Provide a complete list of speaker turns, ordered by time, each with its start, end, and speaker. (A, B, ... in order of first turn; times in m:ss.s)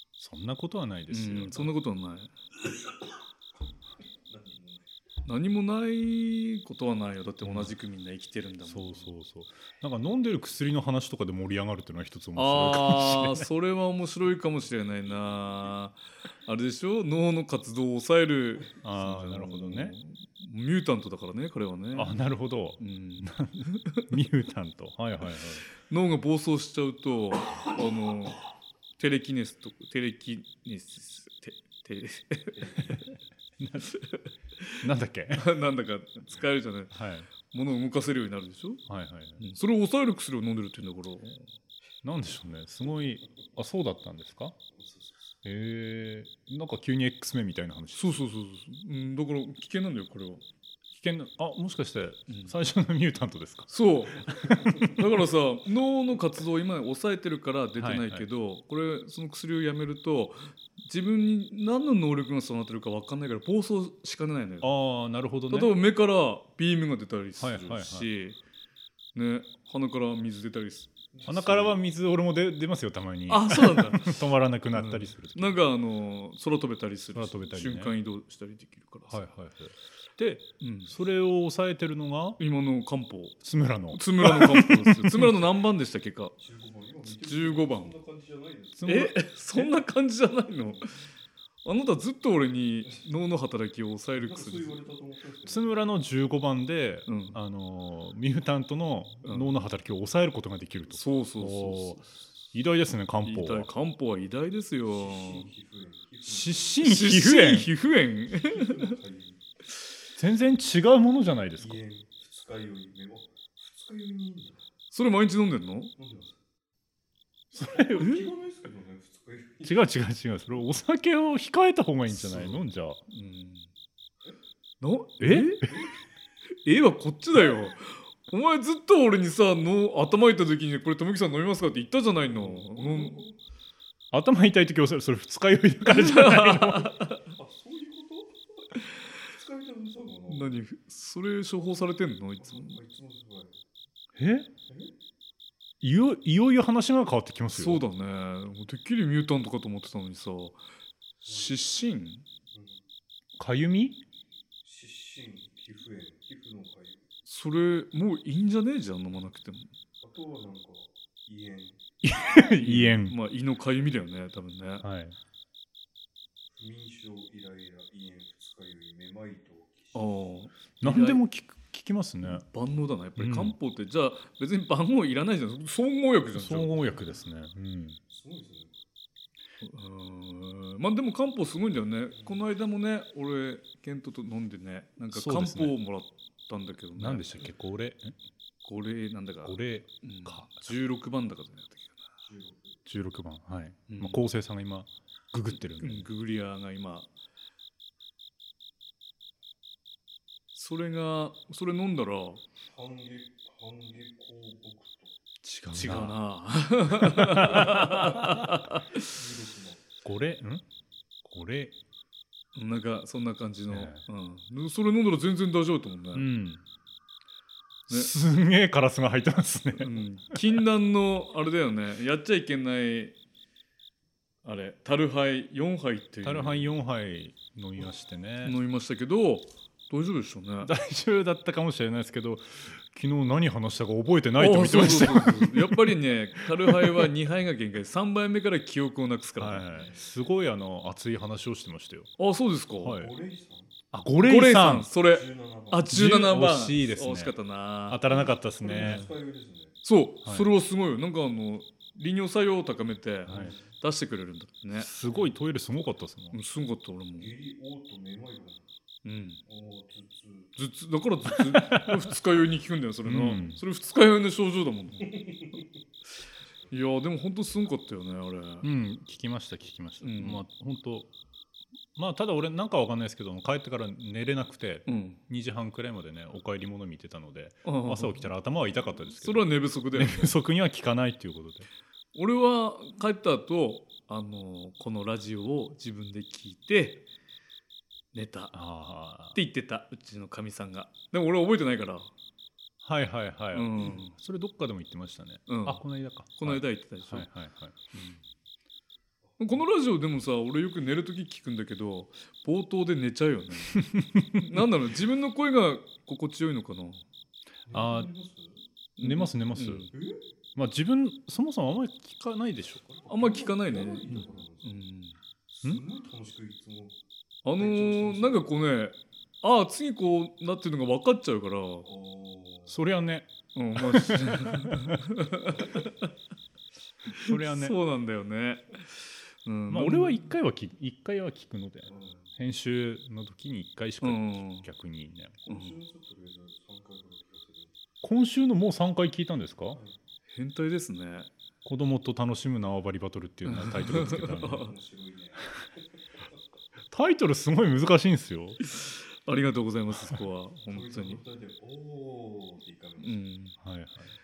0:00.2-0:01.7 A
0:01.1-0:02.3 B
0:04.3-0:04.9 C
0:05.2-0:09.1 B
0:07.4-0:07.7 A
0:08.6-0:13.5 A
0:12.3-0:22.2 B
0:18.8-0:19.9 A
0:21.9-0:25.6 A
0:22.8-0:24.1 B
0:25.8-0:28.4 B
0:29.0-0:33.0 B
0:32.5-0:33.0 C
0:33.6-0:33.9 A
0:33.8-0:38.8 B
0:34.8-0:35.5 A
0:36.9-0:37.3 A
0:38.9-0:39.4 A
0:39.4-0:41.5 B
0:42.0-0:44.6 A
0:44.7-0:45.4 C
0:45.4-0:48.2 A
0:47.9-0:50.4 B
0:50.9-0:54.9 A
0:53.7-1:04.7 B
0:57.8-0:58.2 A
1:04.6-1:05.7 A
1:05.5-1:08.4 B
1:07.4-1:08.1 A
1:09.1-1:10.9 B
1:11.1-1:11.8 C
1:11.2-1:15.6 A
1:13.3-1:19.2 B
1:17.1-1:17.9 A
1:19.1-1:22.4 A
1:20.6-1:20.9 B
1:22.4-1:23.4 B
1:23.4-1:25.4 A
1:23.9-1:26.3 B
1:26.4-1:28.9 C
1:27.0-1:27.9 B
1:28.8-1:29.1 A
1:28.8-1:31.0 B
1:31.6-1:34.8 B
1:34.2-1:35.8 C
1:35.4-1:43.7 A
1:37.1-1:37.4 B
1:39.2-1:39.6 B
1:40.9-1:42.0 B
1:43.2-1:45.5 B
1:44.8-1:46.8 C
1:46.2-1:47.7 A
1:46.8-1:48.9 B
1:48.3-1:49.4 C
1:50.2-1:51.8 A
1:51.6-1:54.6 C
1:54.9-1:55.9 B
1:56.0-1:56.4 C
1:57.5-1:58.3 A
1:57.7-1:59.8 C
1:59.6-2:03.0 A
2:02.1-2:02.6 C
2:03.1-2:03.7 B
2:04.8-2:05.7 B
2:05.2-2:05.7 A
2:05.6-2:06.0 C
2:06.6-2:13.2 B
2:12.2-2:13.4 C
2:14.1-2:17.0 A
2:15.9-2:17.3 B
2:17.3-2:20.6 C
2:20.3-2:22.8 B
2:22.4-2:23.6 C
2:24.2-2:24.5 A
2:24.7-2:24.9 C
2:25.8-2:27.8 A
2:27.5-2:30.6 B
2:31.2-2:31.6 C
2:31.2-2:32.2 B
2:32.5-2:32.8 C
2:33.4-2:34.0 A
2:34.6-2:37.0 C
2:37.2-2:39.7 B
2:40.0-2:41.8 C
2:42.0-2:43.2 A
2:42.6-2:44.8 B
2:44.8-2:45.2 A
2:46.5-2:50.3 C
2:49.9-2:51.2 B
2:50.8-2:52.4 A
2:52.2-2:56.8 B
2:53.2-2:53.5 A
2:56.3-2:58.0 A
2:58.1-2:58.8 C
2:59.6-3:07.3 B
3:02.1-3:02.4 C
3:05.1-3:05.7 A
3:07.0-3:08.1 A
3:08.6-3:12.0 B
3:09.4-3:10.7 A
3:12.2-3:12.8 C
3:12.8-3:16.1 A
3:13.9-3:14.2 B
3:15.8-3:17.1 B
3:20.5-3:22.4 B
3:22.7-3:25.1 C
3:25.4-3:26.2 A
3:25.7-3:29.1 B
3:27.0-3:28.3 A
3:29.0-3:29.8 C
3:30.0-3:30.6 A
3:31.2-3:31.7 A
3:32.5-3:36.2 B
3:33.7-3:34.0 A
3:36.1-3:36.6 A
3:37.9-3:40.0 A
3:39.8-3:43.1 B
3:44.4-3:46.7 B
3:46.2-3:48.6 A
3:48.4-3:50.7 B
3:50.6-3:56.0 A
3:54.4-3:59.7 B
3:56.5-3:57.1 A
3:59.4-4:02.1 A
3:59.7-4:00.0 C
4:02.2-4:03.0 B
4:02.8-4:03.1 A
4:02.9-4:03.7 C
4:03.9-4:04.9 A
4:04.2-4:08.0 B
4:05.0-4:05.9 C
4:05.9-4:07.3 A
4:07.9-4:09.1 A
4:08.1-4:09.8 C
4:08.8-4:09.1 B
4:09.8-4:14.9 B
4:10.2-4:10.5 A
4:13.3-4:13.7 C
4:13.3-4:13.5 A
4:14.7-4:16.4 A
4:15.1-4:15.3 C
4:16.3-4:17.3 B
4:17.2-4:18.6 C
4:19.0-4:19.4 B
4:19.4-4:20.5 C
4:20.6-4:25.2 B
4:21.4-4:22.0 A
4:23.0-4:23.6 A
4:25.0-4:25.7 C
4:26.7-4:28.7 B
4:28.6-4:31.1 A
4:30.0-4:30.4 B
4:32.0-4:41.7 A
4:34.8-4:35.2 B
4:37.6-4:38.3 B
4:39.2-4:40.3 B
4:42.1-4:47.0 B
4:48.1-4:48.6 B
4:48.5-4:49.4 A
4:49.3-4:52.1 B
4:52.8-4:57.9 A
4:53.5-4:54.1 B
4:55.5-4:55.8 B
4:56.4-4:57.3 B
4:59.3-4:59.6 C
4:59.4-5:07.0 B
5:03.7-5:04.6 A
5:07.7-5:08.6 C
5:07.7-5:08.1 A
5:09.0-5:09.9 B
5:09.0-5:09.9 A
5:09.9-5:10.2 C
5:10.6-5:12.8 A
5:12.7-5:14.8 C
5:13.1-5:15.2 B
5:15.5-5:17.0 C
5:17.4-5:21.9 B
5:17.6-5:18.4 C
5:21.8-5:22.8 C
5:22.7-5:25.0 A
5:23.5-5:26.1 B
5:27.1-5:30.3 B
5:27.1-5:27.8 A
5:29.7-5:35.4 A
5:31.8-5:32.3 C
5:34.0-5:34.7 B
5:35.4-5:37.8 C
5:35.5-5:35.8 B
5:38.0-5:39.8 A
5:40.3-5:41.3 B
5:41.6-5:44.6 A
5:43.4-5:44.7 B
5:44.1-5:45.8 C
5:46.9-5:48.6 A
5:48.6-5:51.2 B
5:50.7-5:53.2 C
5:53.0-5:53.5 B
5:53.6-5:54.1 A